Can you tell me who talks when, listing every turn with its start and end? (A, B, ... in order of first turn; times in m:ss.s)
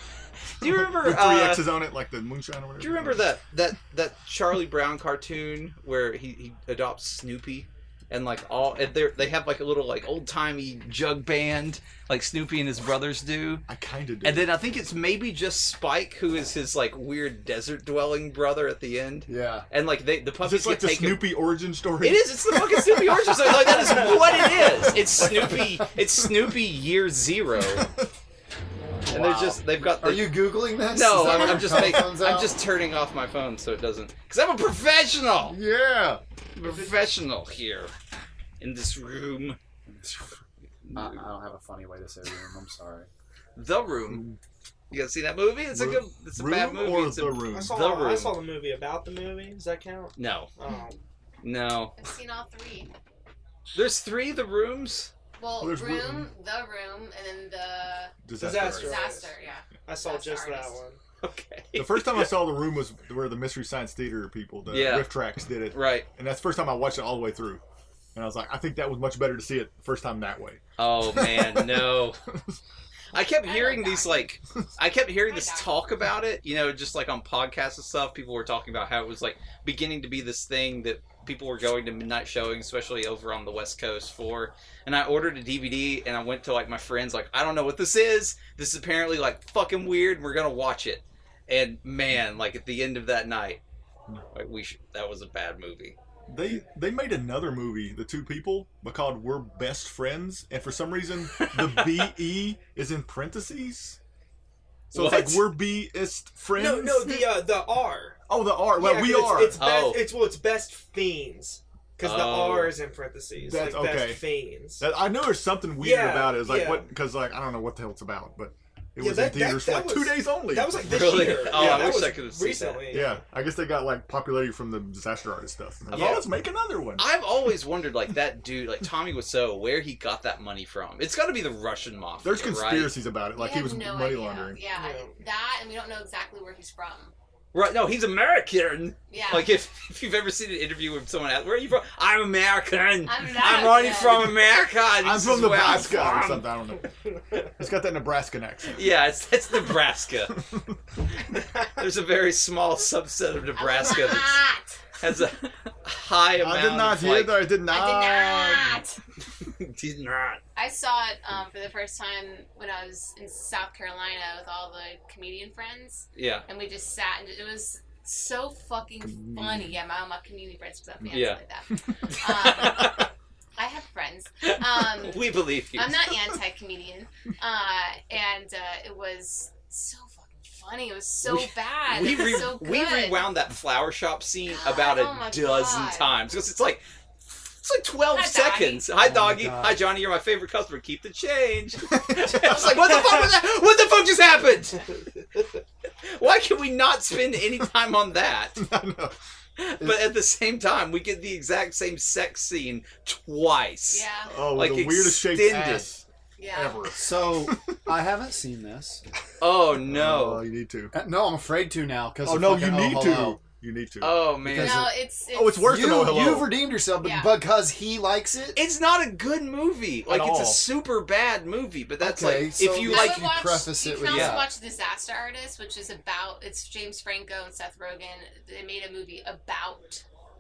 0:00.6-0:01.8 A
0:00.6-0:03.3 B
0:02.8-0:13.6 A
0:13.7-0:14.5 B
0:14.2-0:21.3 A
0:19.3-0:19.6 C
0:20.4-0:25.6 B
0:22.0-0:27.9 A
0:23.5-0:24.4 D
0:27.6-0:28.1 B
0:29.0-0:32.6 C
0:29.1-0:35.6 A
0:31.7-0:32.1 B
0:35.4-0:36.2 C
0:36.6-0:37.9 A
0:38.6-0:39.6 A
0:39.9-0:40.4 C
0:40.8-0:41.2 A
0:41.0-0:43.1 C
0:43.6-0:44.2 A
0:44.1-0:44.4 C
0:44.9-0:48.4 A
0:45.7-0:47.8 B
0:47.5-0:51.0 D
0:50.2-0:50.5 A
0:51.4-0:51.9 A
0:52.0-0:52.9 E
0:53.7-0:55.1 A
0:55.4-1:00.8 E
0:55.6-0:56.3 B
0:58.2-0:59.0 B
0:58.4-0:59.3 D
0:59.9-1:01.0 D
1:01.2-1:02.3 A
1:01.8-1:07.6 B
1:04.7-1:05.2 A
1:05.7-1:06.1 A
1:08.2-1:12.4 B
1:10.8-1:12.2 A
1:13.1-1:33.6 A
1:13.2-1:14.3 E
1:15.1-1:15.8 E
1:34.3-1:36.0 A
1:36.3-1:44.0 B
1:44.9-1:47.1 B
1:44.9-1:45.6 A
1:46.5-1:54.8 D
1:48.3-1:49.6 B
1:49.6-1:50.2 A
1:52.0-1:52.8 A
1:53.4-2:02.0 B
1:55.8-1:56.9 D
1:59.0-2:03.2 D
2:00.8-2:03.0 A
2:02.9-2:07.1 B
2:05.9-2:06.3 A
2:05.9-2:06.2 D
2:07.0-2:13.0 A
2:12.2-2:14.6 B
2:13.3-2:17.1 E
2:14.8-2:15.2 D
2:17.5-2:26.5 A
2:19.1-2:19.6 E
2:23.1-2:24.4 E
2:25.0-2:26.9 B
2:27.6-2:28.8 B
2:28.7-2:30.3 A
2:30.4-2:30.8 B
2:31.4-2:34.4 A
2:33.6-2:34.8 E
2:35.0-2:37.5 A
2:36.4-2:38.8 B
2:37.7-2:39.0 E
2:39.6-2:40.4 A
2:40.6-2:53.0 E
2:46.2-2:46.5 A
2:49.0-2:49.8 B
2:51.1-2:51.4 A
2:52.2-2:53.1 A
2:53.6-3:03.3 E
2:54.5-2:56.0 A
3:01.2-3:06.8 A
3:04.5-3:06.2 E
3:07.5-3:15.0 A
3:08.1-3:08.9 E
3:09.0-3:09.8 C
3:11.9-3:12.7 B
3:16.1-3:18.6 A
3:18.6-3:19.2 B
3:19.6-3:25.9 A
3:23.9-3:24.4 E
3:24.3-3:27.8 B
3:26.4-3:26.9 E
3:26.9-3:29.0 C
3:29.4-3:30.4 A
3:29.8-3:30.9 B
3:30.9-3:33.4 C
3:32.2-3:34.3 B
3:34.0-3:34.8 A
3:34.4-3:35.0 C
3:34.6-3:35.8 E
3:35.3-3:36.6 B
3:35.6-3:38.6 C
3:37.0-3:37.4 E
3:38.6-3:43.3 A
3:40.1-3:40.6 B
3:42.0-3:44.5 C
3:42.8-3:50.0 E
3:44.0-3:44.5 A